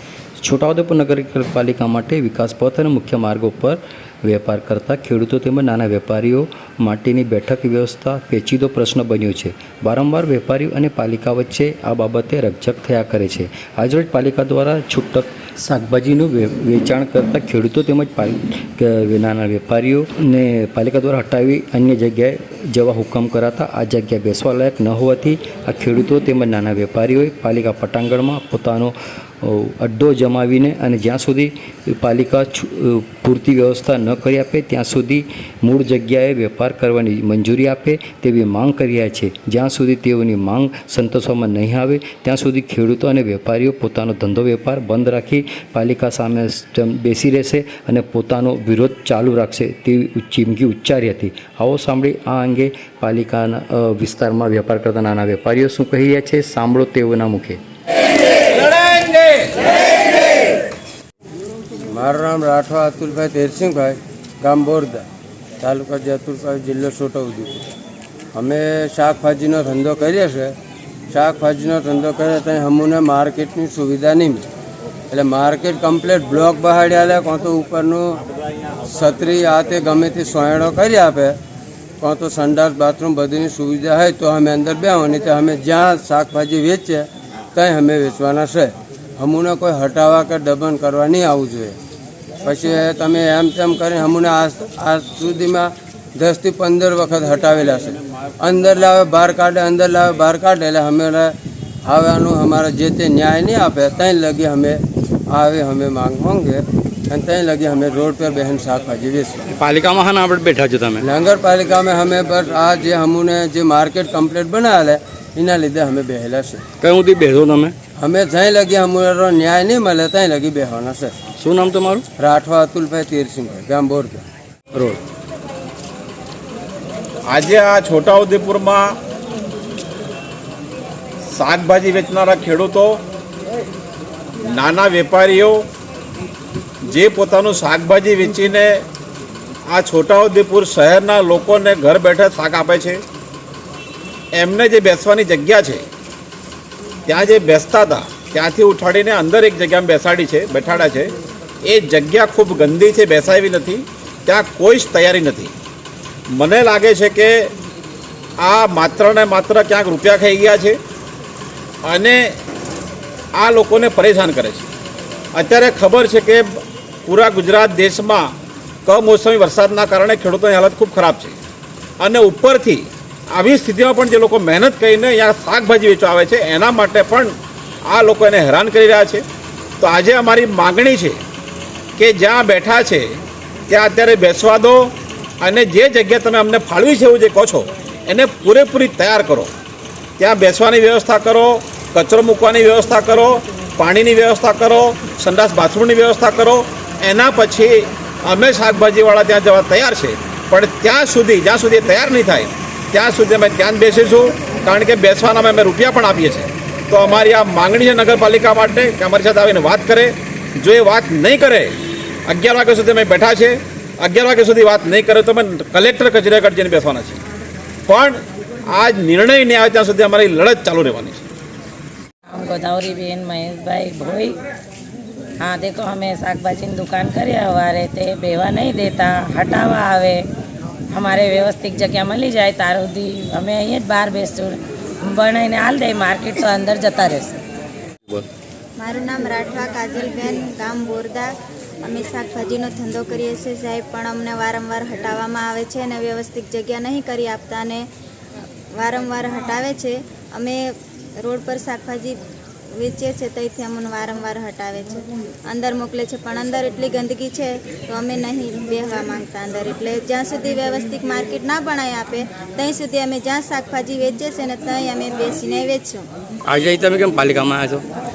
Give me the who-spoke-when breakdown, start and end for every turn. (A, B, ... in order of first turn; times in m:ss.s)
0:00.4-0:57.6 A
0:58.6-0:59.6 B
1:01.9-1:05.1 C
1:05.6-1:07.7 C
1:08.3-1:10.6 C
1:11.1-1:14.5 C
1:15.1-1:18.2 C
1:18.8-1:21.4 C
1:22.0-1:31.8 C
1:32.4-1:41.3 C
1:41.8-1:49.4 C
1:49.5-1:51.0 A
1:51.0-1:56.6 C
1:56.8-1:57.8 A
1:58.0-2:01.1 C
2:01.4-2:02.0 A
2:02.2-2:04.3 C
2:04.7-2:05.0 A
2:07.3-2:08.9 B
2:11.3-2:13.0 B
2:14.4-2:15.6 B
2:16.9-2:18.8 B
2:19.7-2:23.0 B
2:24.4-2:25.8 B
2:27.1-2:31.1 B
2:31.7-2:35.5 B
2:36.3-2:37.5 B
2:38.4-2:40.8 B
2:41.9-2:42.3 B
2:43.4-2:44.7 B
2:45.4-2:48.3 B
2:48.9-2:51.4 B
2:52.0-2:57.3 B
2:57.9-2:59.2 B
2:59.8-3:01.2 B
3:02.0-3:03.1 B
3:03.7-3:09.5 B
3:10.2-3:37.2 B
3:37.9-3:41.2 B
3:42.3-3:44.4 D
3:45.4-3:50.3 D
3:50.9-3:57.4 D
3:58.8-4:07.9 E
4:08.8-4:12.2 E
4:12.7-4:26.1 E
4:26.5-4:27.8 A